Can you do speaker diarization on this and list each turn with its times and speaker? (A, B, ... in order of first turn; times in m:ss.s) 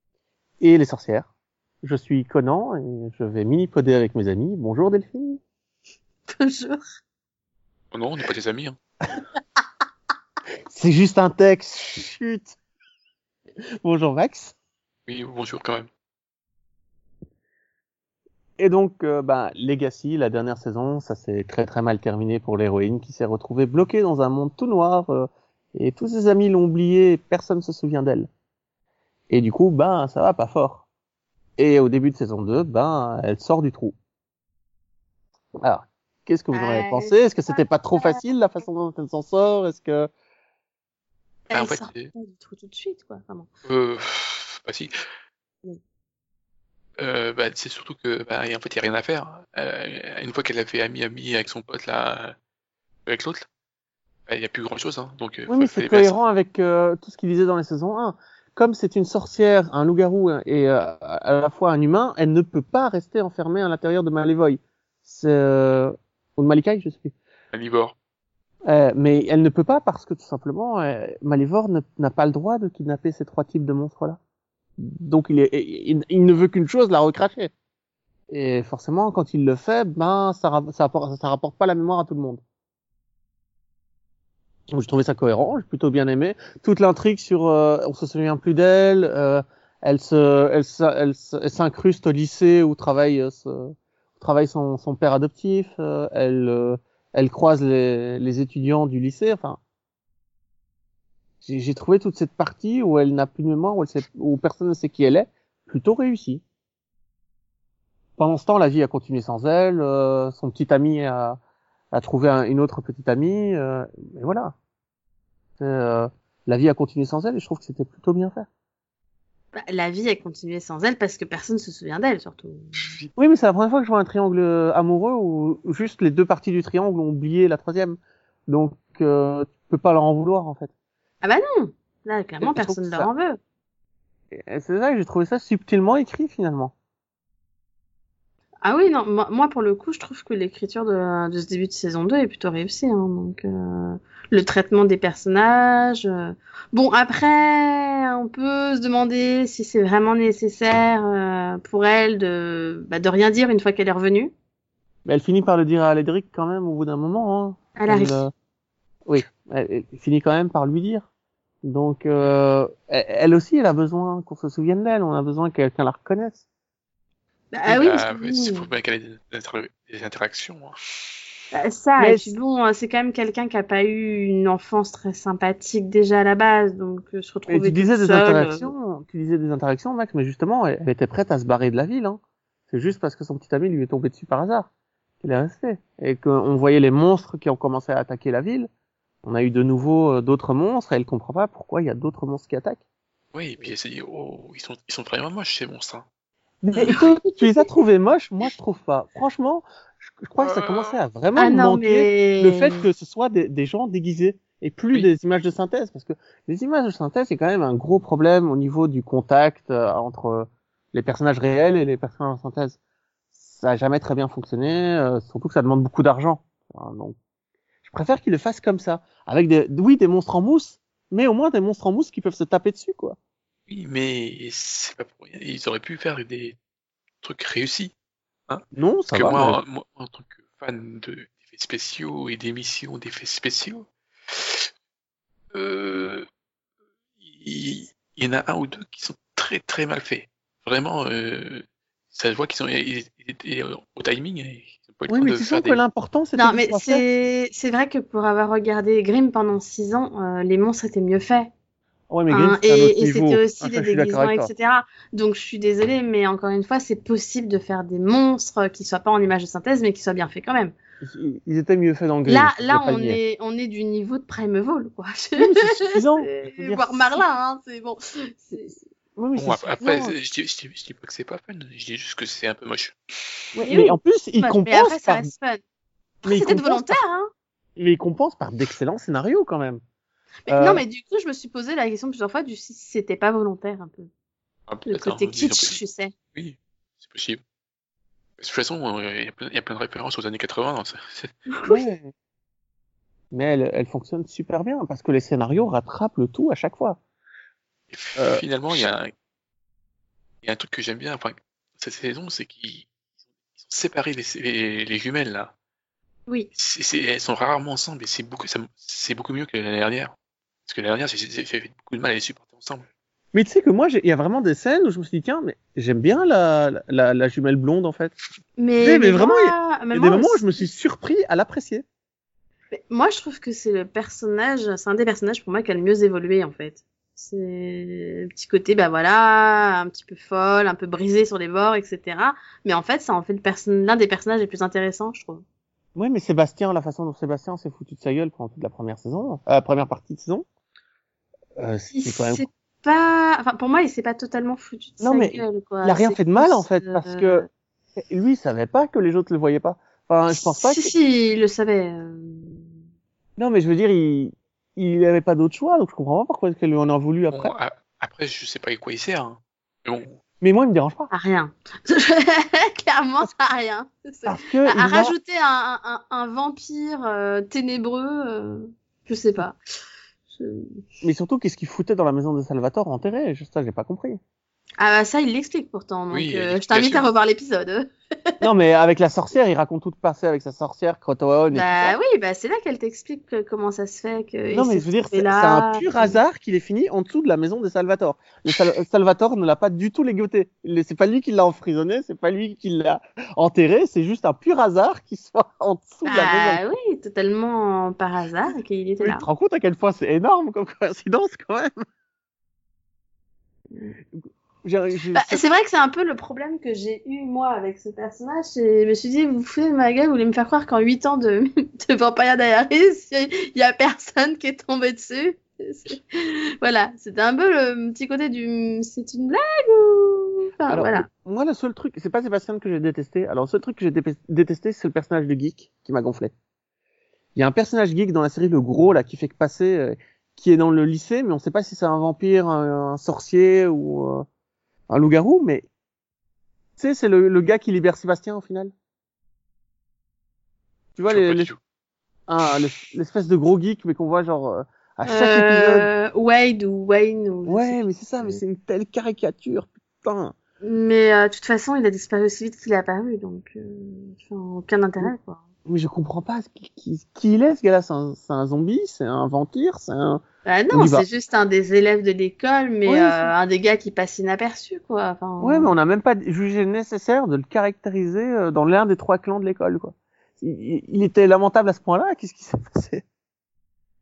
0:00.6-0:01.3 A
0:01.8-0:05.4 A
0:06.3-0:06.8 B
0:07.9-0:08.8 C
0:10.7-0:12.6 A
0:13.8-0:14.5 A
0:15.1-0:15.9 C
0:18.6-0:28.3 A
0:29.3-0:30.8 A
0:31.6-0:34.0 A
0:35.6-0:40.1 A
0:36.5-0:38.2 B
0:41.5-0:42.1 C
0:41.5-0:43.5 B
0:43.6-0:44.9 C
0:47.0-0:52.3 C
0:53.0-0:53.5 C
0:54.3-0:56.2 C
0:55.5-1:07.2 A
1:07.5-1:07.9 C
1:08.7-1:14.2 A
1:14.8-1:17.5 A
1:18.3-1:22.4 A
1:24.7-1:39.6 A
1:41.4-1:46.4 A
1:48.2-1:51.4 A
1:51.9-1:54.5 A
1:55.6-1:58.5 A
1:59.5-2:02.7 B
2:03.2-2:10.7 A
2:11.2-2:13.4 B
2:12.4-2:13.1 A
2:14.3-2:16.7 A
2:18.6-2:34.3 B
2:35.0-2:38.3 A
2:37.8-2:38.2 B
2:39.0-2:41.0 A
2:41.6-2:46.4 A
2:47.5-2:48.7 B
2:47.7-2:51.1 C
2:51.5-2:58.7 B
2:52.0-2:52.3 A
2:57.5-3:04.7 A
3:05.2-3:08.7 A
3:09.2-3:12.8 A
3:13.3-3:16.0 C
3:16.6-3:32.8 A
3:16.8-3:17.4 B
3:20.4-3:21.0 C
3:21.4-3:22.8 B
3:33.4-3:37.2 A
3:37.8-3:43.2 A
3:43.7-3:46.6 C
3:47.2-3:47.9 C
3:48.5-3:54.7 C
3:48.7-3:49.6 A
3:55.5-3:56.2 C
3:57.2-4:05.8 C
4:05.1-4:07.0 A
4:06.4-4:11.5 B
4:12.1-4:14.5 A
4:12.3-4:20.8 B
4:21.0-4:23.2 A
4:22.3-4:28.8 B
4:25.4-4:27.2 A
4:29.2-4:30.2 A
4:29.4-4:33.0 C
4:33.6-4:35.3 A
4:33.6-4:35.6 B
4:36.2-4:37.3 B
4:36.2-4:37.0 A
4:37.8-4:39.8 A
4:40.5-4:44.1 B
4:40.5-4:40.8 A
4:44.7-4:45.8 C
4:44.9-4:46.1 B
4:46.3-4:47.4 C
4:48.4-4:51.4 C
4:51.5-4:51.9 B
4:51.7-4:52.1 A
4:53.3-4:57.0 A
4:57.9-4:59.1 C
4:58.2-4:58.4 A
5:00.4-5:02.9 C
5:03.6-5:05.5 C
5:06.6-5:10.2 C
5:10.7-5:12.9 C
5:13.3-5:18.2 A
5:18.6-5:20.7 B
5:18.8-5:21.8 A
5:22.7-5:35.4 B
5:36.0-5:40.5 A
5:41.6-5:42.4 A
5:41.9-5:47.5 B
5:45.0-5:47.5 A
5:48.0-5:50.9 A
5:50.5-5:52.7 B
5:53.4-5:57.5 A
5:57.3-6:00.2 C
6:00.4-6:01.1 A
6:01.1-6:09.6 B
6:04.2-6:05.1 A
6:10.3-6:10.7 B
6:11.0-6:14.2 A
6:14.8-6:18.3 B
6:16.1-6:17.1 C
6:18.4-6:22.0 A
6:21.5-6:26.2 B
6:24.5-6:36.6 A
6:36.0-6:39.2 B
6:39.0-6:41.8 A
6:44.1-6:45.4 A
6:45.1-7:01.1 B
7:00.7-7:06.3 A
7:07.4-7:14.2 A
7:14.9-7:15.7 A
7:16.8-7:18.7 A
7:21.0-7:21.5 A
7:21.1-7:21.6 C
7:22.3-7:25.9 A
7:25.1-7:28.4 B
7:27.5-7:30.4 A
7:30.6-7:35.4 B
7:35.7-7:41.1 A
7:40.4-7:45.7 B
7:42.9-7:43.3 A
7:45.4-7:53.0 A